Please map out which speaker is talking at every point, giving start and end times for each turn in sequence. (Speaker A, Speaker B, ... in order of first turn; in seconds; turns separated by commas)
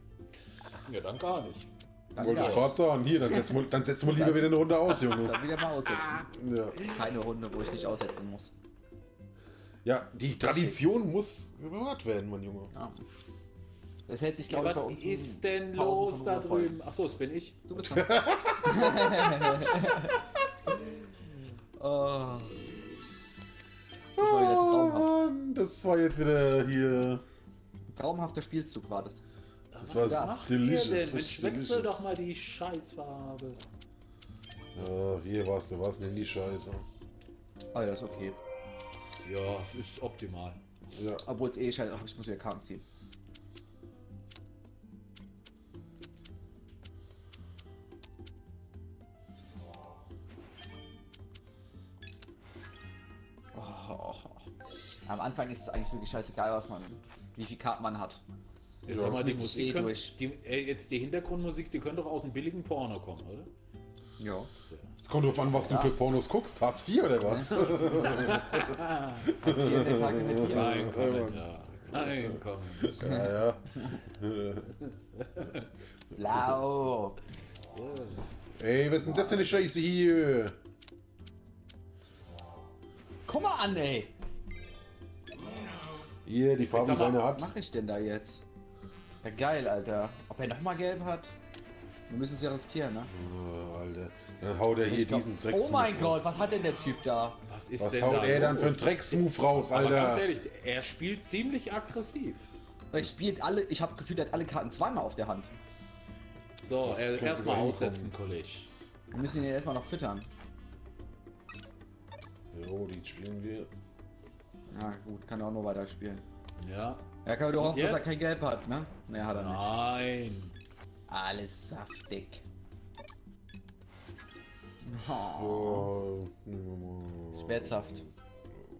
Speaker A: 0.8-2.7, Speaker B: 2.1-8.5, Speaker C: 2.2-5.4, Speaker A: 5.8-7.0, Speaker C: 6.3-6.8, Speaker C: 9.8-12.7, Speaker B: 10.4-10.7, Speaker B: 12.7-13.0, Speaker B: 14.1-16.8, Speaker A: 14.5-17.6, Speaker B: 17.7-20.1, Speaker C: 17.7-19.6, Speaker B: 21.8-22.6, Speaker B: 24.2-25.2, Speaker C: 24.2-27.2, Speaker B: 27.9-29.2, Speaker A: 29.7-33.6, Speaker C: 29.8-32.0, Speaker B: 29.9-30.5, Speaker C: 34.7-36.8, Speaker B: 37.7-38.4, Speaker A: 39.2-40.6, Speaker C: 40.9-41.2, Speaker B: 41.2-42.8, Speaker B: 53.5-54.5, Speaker B: 55.0-58.2, Speaker A: 58.8-63.5, Speaker C: 58.9-59.2, Speaker B: 59.0-60.1, Speaker B: 64.2-64.5, Speaker C: 65.0-68.6, Speaker B: 65.4-66.0, Speaker A: 67.5-69.3, Speaker C: 69.2-74.7, Speaker B: 69.3-71.0, Speaker A: 70.3-73.1, Speaker B: 73.0-73.3, Speaker A: 75.2-75.7, Speaker B: 76.1-77.2, Speaker A: 77.7-78.2, Speaker C: 78.6-80.5, Speaker B: 79.0-79.7, Speaker B: 83.2-84.1, Speaker C: 86.2-87.5, Speaker A: 86.7-87.3, Speaker B: 87.3-88.4, Speaker B: 89.2-91.4, Speaker B: 92.1-93.1, Speaker C: 93.1-96.2, Speaker B: 94.8-97.4, Speaker A: 97.5-102.5, Speaker C: 97.8-100.3, Speaker B: 102.9-105.5, Speaker A: 106.6-108.7, Speaker C: 106.8-108.1, Speaker B: 109.1-110.3, Speaker C: 112.5-113.7, Speaker B: 114.7-116.2, Speaker A: 116.6-118.2, Speaker B: 117.2-119.7, Speaker A: 119.3-120.5, Speaker B: 121.1-122.4, Speaker B: 124.8-125.9, Speaker C: 125.1-127.9, Speaker B: 127.3-128.1